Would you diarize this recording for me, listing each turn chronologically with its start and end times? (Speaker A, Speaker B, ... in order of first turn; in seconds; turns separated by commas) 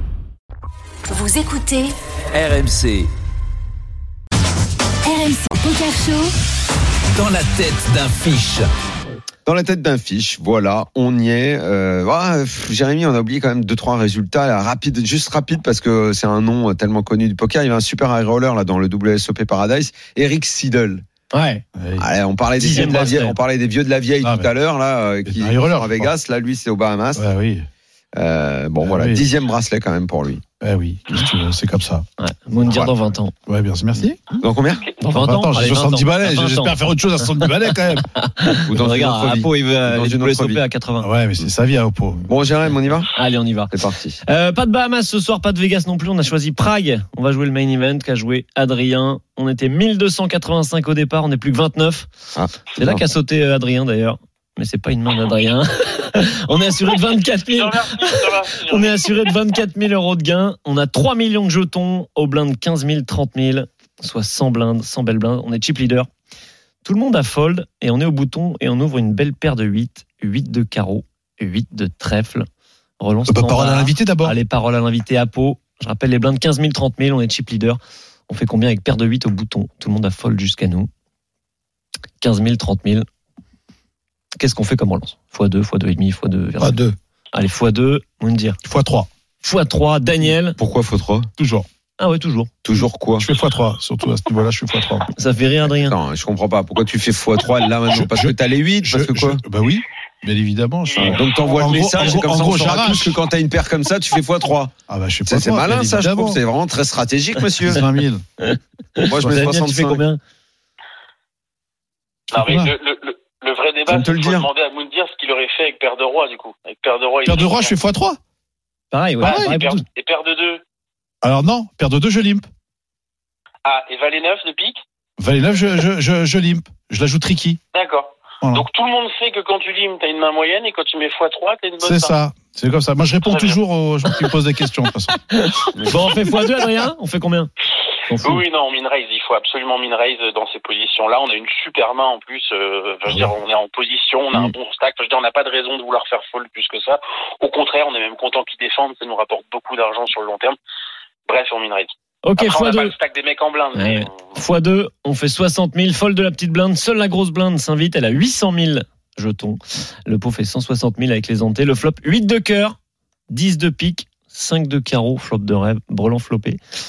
Speaker A: 1.1-1.9, Speaker B: 2.3-3.1, Speaker A: 5.1-6.3, Speaker B: 7.1-8.7, Speaker C: 9.4-21.0, Speaker D: 21.3-21.6, Speaker E: 21.7-22.0, Speaker C: 22.0-27.2, Speaker D: 22.6-23.4, Speaker E: 22.7-23.0, Speaker E: 24.2-24.5, Speaker E: 25.2-26.1, Speaker E: 27.1-27.7, Speaker C: 28.1-30.4, Speaker E: 28.8-29.2, Speaker E: 30.6-32.0, Speaker D: 32.2-33.3, Speaker C: 32.6-32.9, Speaker E: 33.5-34.4, Speaker C: 34.4-34.9, Speaker D: 35.0-36.8, Speaker E: 35.1-38.1, Speaker D: 38.1-41.1, Speaker C: 38.7-40.6, Speaker E: 41.0-42.2, Speaker C: 42.2-43.1, Speaker D: 43.1-52.1, Speaker C: 43.7-44.2, Speaker C: 52.3-53.0, Speaker D: 52.8-66.1, Speaker F: 57.5-59.2, Speaker D: 66.8-72.5, Speaker D: 73.0-80.9, Speaker E: 73.3-74.3, Speaker D: 82.2-83.0, Speaker D: 84.4-86.8, Speaker E: 86.6-86.9, Speaker D: 87.3-88.6, Speaker E: 88.6-89.1, Speaker D: 89.4-90.6, Speaker C: 90.6-91.3, Speaker E: 91.4-91.7, Speaker D: 92.0-92.5, Speaker C: 92.6-93.3, Speaker E: 92.8-95.1, Speaker D: 95.2-96.0, Speaker C: 95.6-99.4, Speaker E: 97.9-103.2, Speaker F: 100.8-102.3, Speaker C: 101.0-104.7, Speaker E: 104.9-106.4, Speaker C: 105.2-107.8, Speaker E: 107.7-108.2, Speaker D: 108.4-110.2, Speaker C: 109.0-110.0, Speaker E: 112.3-112.7, Speaker F: 112.3-117.8, Speaker C: 113.9-114.5, Speaker E: 117.2-118.2, Speaker D: 118.9-119.8, Speaker E: 119.2-119.5, Speaker F: 119.2-120.6, Speaker E: 121.2-122.5, Speaker F: 123.6-124.8, Speaker E: 125.2-127.6, Speaker F: 127.7-132.2, Speaker E: 131.8-135.1, Speaker F: 133.2-133.6, Speaker D: 135.3-137.5, Speaker D: 138.1-138.4, Speaker F: 138.2-150.6, Speaker F: 151.3-154.1, Speaker D: 152.2-152.9, Speaker D: 153.7-162.8, Speaker D: 163.3-166.6